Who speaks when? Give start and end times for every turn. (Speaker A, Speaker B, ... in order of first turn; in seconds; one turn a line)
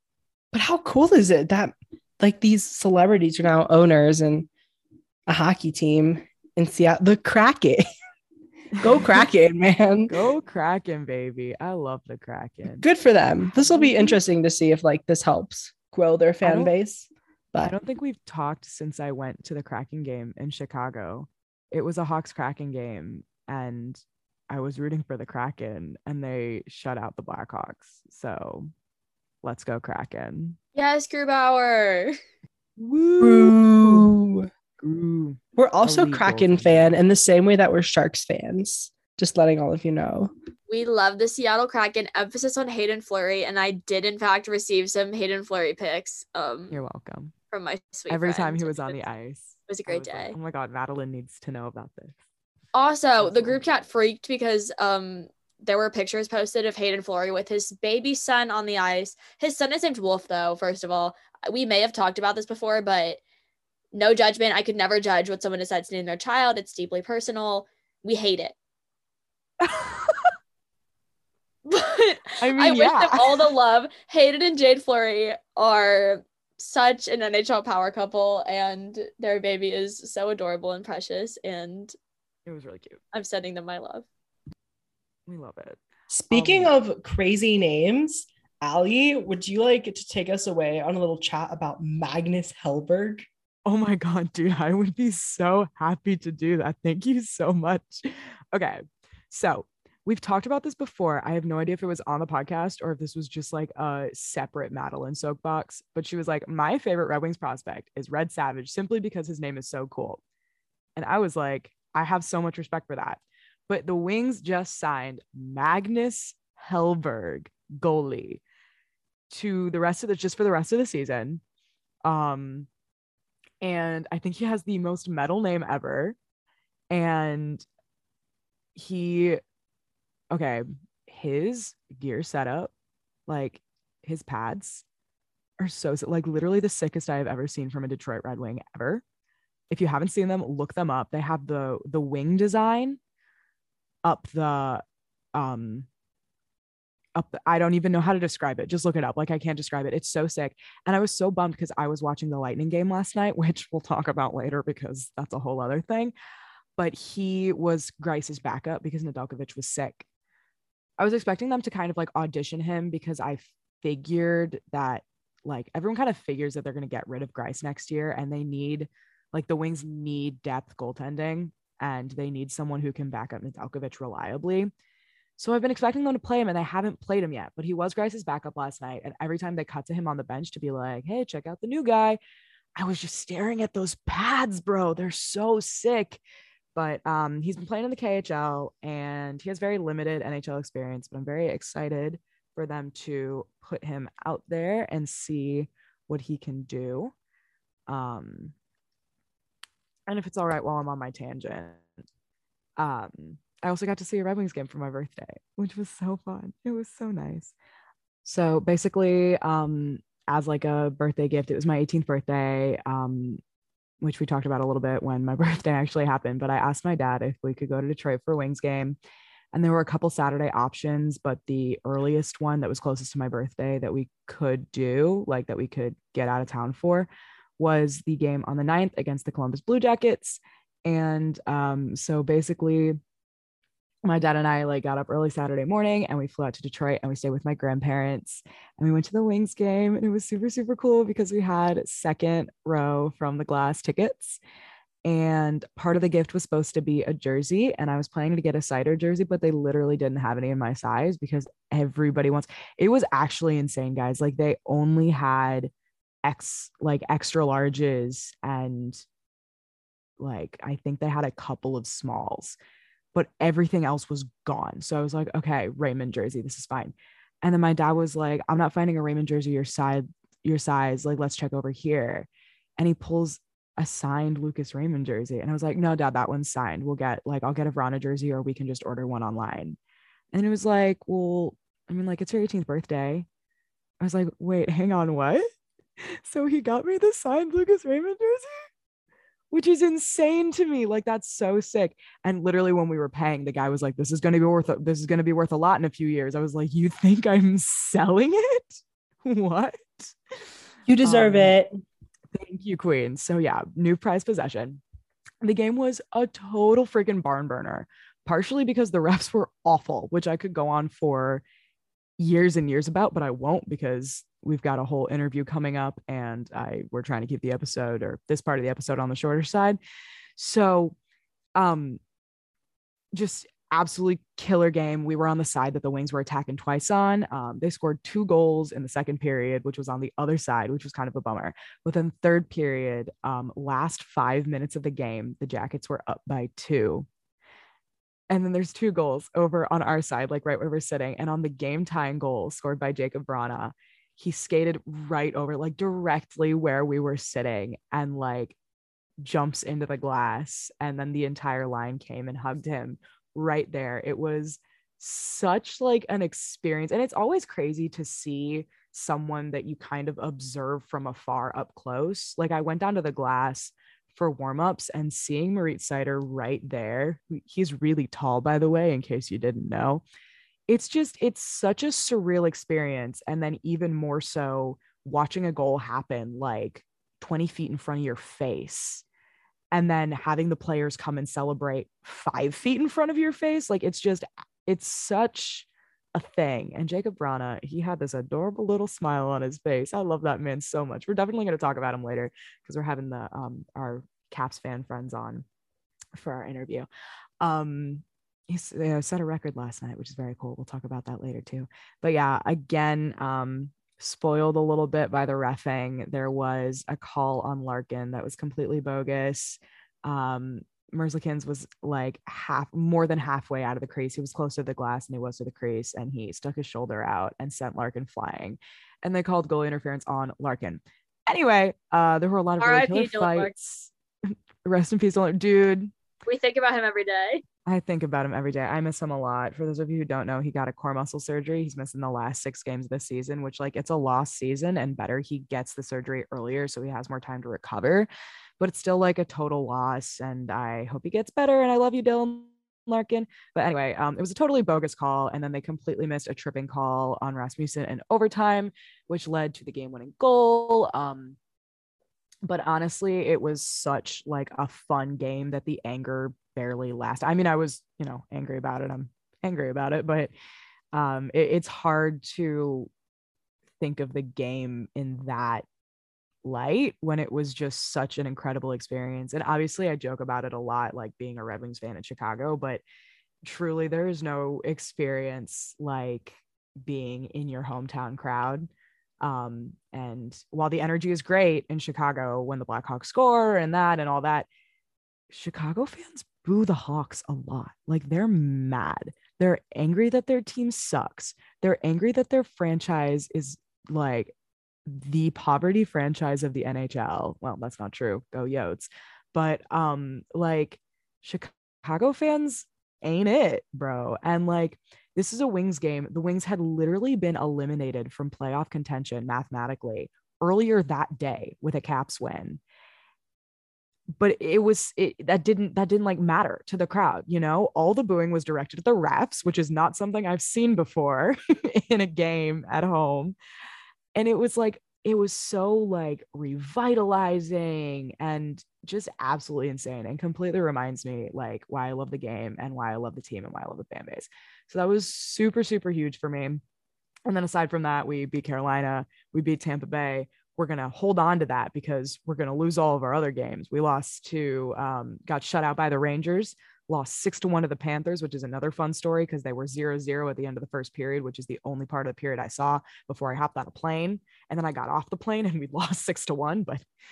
Speaker A: 0.5-4.5
Speaker A: 5.3-7.8
Speaker B: 8.8-9.2
Speaker A: 8.8-10.2
Speaker B: 10.1-12.9
Speaker A: 12.8-17.8
Speaker B: 13.6-14.2
Speaker B: 16.4-16.7
Speaker B: 17.6-28.7
Speaker B: 29.4-30.6
Speaker C: 30.8-32.2
Speaker B: 32.8-34.1
Speaker A: 33.2-34.5
Speaker B: 34.8-37.0
Speaker A: 35.6-40.3
Speaker C: 40.7-46.8
Speaker B: 46.7-47.3
Speaker C: 47.5-49.0
Speaker B: 48.1-52.1
Speaker C: 49.7-50.4
Speaker C: 52.7-63.2
Speaker B: 53.2-53.6
Speaker C: 63.9-68.5
Speaker B: 69.6-70.3
Speaker C: 71.7-81.9
Speaker B: 72.4-73.4
Speaker B: 82.5-83.0
Speaker C: 83.1-84.1
Speaker B: 85.3-85.8
Speaker A: 86.1-93.3
Speaker B: 86.3-86.7
Speaker B: 93.7-110.2
Speaker B: 111.0-118.4
Speaker B: 119.3-121.4
Speaker B: 122.0-122.7
Speaker B: 123.6-126.2
Speaker B: 126.9-127.6
Speaker B: 128.8-129.4
Speaker B: 130.3-132.7
Speaker B: 133.3-134.8
Speaker B: 135.6-139.0
Speaker B: 139.7-143.0
Speaker B: 144.0-144.8
Speaker B: 145.3-145.9
Speaker B: 147.2-156.1
Speaker B: 156.8-160.1
Speaker B: 161.0-174.7
Speaker B: 175.4-182.2
Speaker B: 182.8-186.2
Speaker B: 186.8-197.1
Speaker B: 197.9-198.5
Speaker B: 200.1-201.8
Speaker B: 202.8-207.5
Speaker B: 208.2-213.4
Speaker B: 214.0-219.0
Speaker B: 219.5-233.0
Speaker B: 234.1-244.4
Speaker B: 245.0-255.7
Speaker B: 256.2-259.0
Speaker B: 260.2-262.6
Speaker B: 263.1-272.3
Speaker B: 272.8-279.8
Speaker B: 280.3-283.3
Speaker B: 284.0-285.5
Speaker B: 286.0-288.5
Speaker B: 289.5-300.2
Speaker A: 300.9-301.7
Speaker B: 301.0-301.6
Speaker B: 302.3-304.8
Speaker B: 305.4-311.4
Speaker B: 312.2-319.8
Speaker B: 320.4-321.0
Speaker B: 321.6-322.0
Speaker B: 323.1-337.1
Speaker B: 338.3-348.6
Speaker B: 349.2-370.0
Speaker B: 370.7-379.0
Speaker B: 379.7-395.4
Speaker B: 396.1-396.9
Speaker B: 397.4-425.9
Speaker C: 422.6-423.5
Speaker C: 426.3-427.4
Speaker B: 427.7-438.1
Speaker B: 438.6-451.4
Speaker B: 452.4-460.3
Speaker B: 460.9-462.9
Speaker B: 463.8-465.6
Speaker B: 466.4-472.8
Speaker B: 473.4-478.7
Speaker B: 479.2-484.5
Speaker B: 485.3-494.3
Speaker B: 494.9-512.6
Speaker B: 514.2-523.4
Speaker B: 524.1-536.6
Speaker B: 537.3-556.8